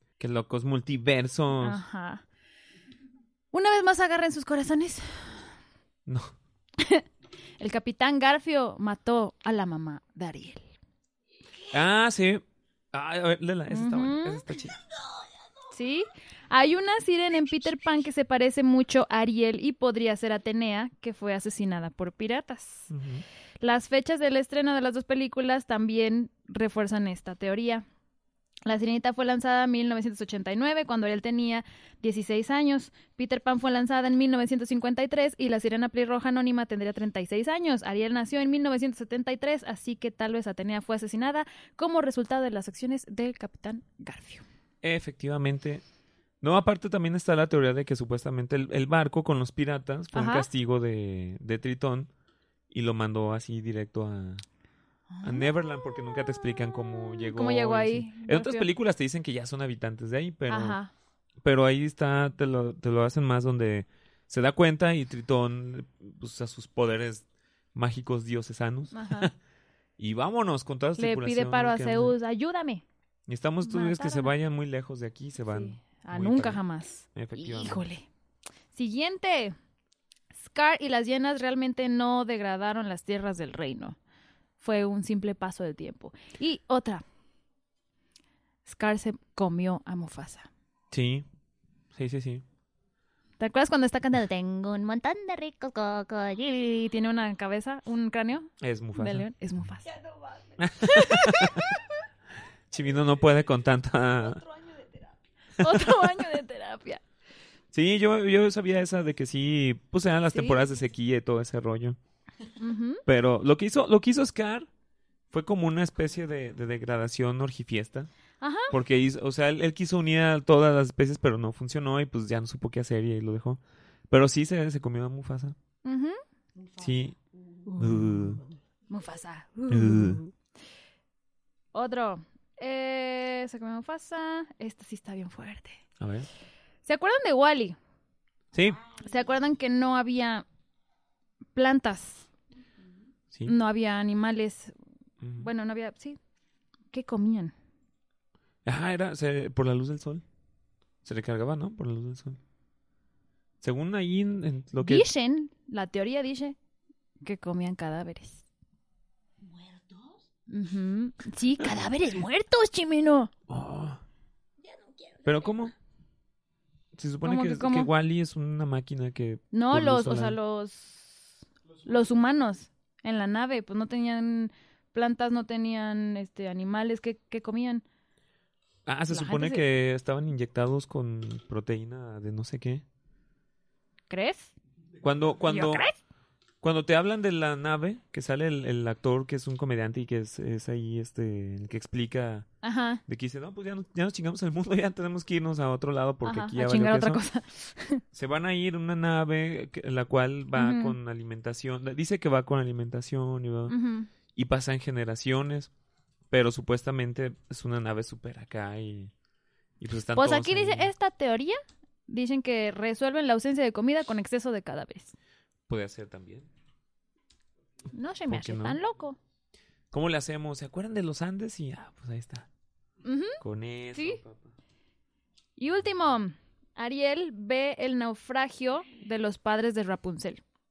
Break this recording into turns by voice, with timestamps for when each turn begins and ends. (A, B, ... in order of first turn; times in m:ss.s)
0:00.2-0:01.8 A
0:01.5-0:02.2 B
0:03.5-0:05.5 B
0:06.1-0:06.4 A
0:06.8-0:07.0 B
0:07.6-0:10.7 B
0:11.7-0:14.8 A
0:13.7-0:14.4 B
0:15.7-0:22.9 B
0:22.9-0:23.2 A
0:23.6-0:27.9 B
0:28.7-0:44.4 B
0:44.8-0:45.8 A
0:46.4-0:52.1 A
0:50.1-0:50.5 B
0:52.7-0:54.4 A
0:55.1-0:55.5 B
0:55.2-1:00.8 A
0:56.9-0:58.7 B
1:00.5-1:00.9 B
1:01.4-1:09.3 A
1:08.9-1:09.3 B
1:10.0-1:12.1 A
1:11.0-1:12.8 B
1:13.3-1:16.6 A
1:13.6-1:14.3 B
1:15.5-1:18.1 B
1:17.1-1:17.8 A
1:18.7-1:19.6 B
1:20.4-1:24.0 B
1:24.6-1:27.0 B
1:28.6-1:30.5 B
1:30.9-1:31.3 A
1:31.9-1:32.4 A
1:33.4-1:39.9 B
1:38.6-1:39.3 A
1:39.9-1:40.7 C
1:40.6-1:41.7 A
1:40.8-1:41.8 B
1:42.7-1:44.4 A
1:44.2-1:45.2 C
1:45.6-1:46.1 A
1:45.6-1:47.0 B
1:47.7-1:52.0 A
1:50.3-1:50.6 B
1:52.6-1:53.0 B
1:53.1-1:54.7 A
1:55.3-1:58.1 A
1:58.4-1:58.7 B
1:58.7-2:05.6 A
2:05.8-2:06.2 B
2:06.6-2:06.9 C
2:06.8-2:07.2 A
2:07.7-2:08.0 B
2:07.8-2:08.4 A
2:08.9-2:10.3 B
2:09.7-2:10.2 A
2:11.7-2:15.8 B
2:16.0-2:16.3 A
2:16.8-2:17.8 B
2:18.5-2:18.8 A
2:18.9-2:20.4 B
2:21.6-2:22.3 B
2:23.4-2:24.7 B
2:25.2-2:25.5 A
2:25.4-2:26.2 B
2:26.9-2:27.5 B
2:28.6-2:30.2 A
2:31.0-2:32.4 A
2:33.6-2:35.1 A
2:34.8-2:36.6 B
2:37.2-2:38.4 B
2:39.4-2:40.2 C
2:40.5-2:43.3 B
2:43.5-2:44.0 A
2:44.6-2:45.5 C
2:45.2-2:45.8 A
2:47.0-2:50.4 A
2:47.2-2:47.9 B
2:49.5-2:57.8 B
2:58.9-3:02.8 A
2:59.1-2:59.6 B
3:04.1-3:04.5 B
3:05.0-3:05.9 A
3:05.5-3:06.0 B
3:06.6-3:12.5 A
3:12.6-3:13.0 B
3:13.1-3:17.2 A
3:16.2-3:18.0 B
3:18.1-3:23.8 A
3:20.6-3:21.0 B
3:23.7-3:24.1 B
3:24.4-3:25.7 A
3:26.3-3:29.1 A
3:29.8-3:30.9 A
3:30.2-3:35.2 B
3:35.7-3:36.5 A
3:37.9-3:39.2 B
3:38.3-3:38.8 A
3:39.9-3:42.5 A
3:43.0-3:43.4 B
3:43.4-3:44.5 A
3:43.9-3:44.2 B
3:45.6-3:50.4 B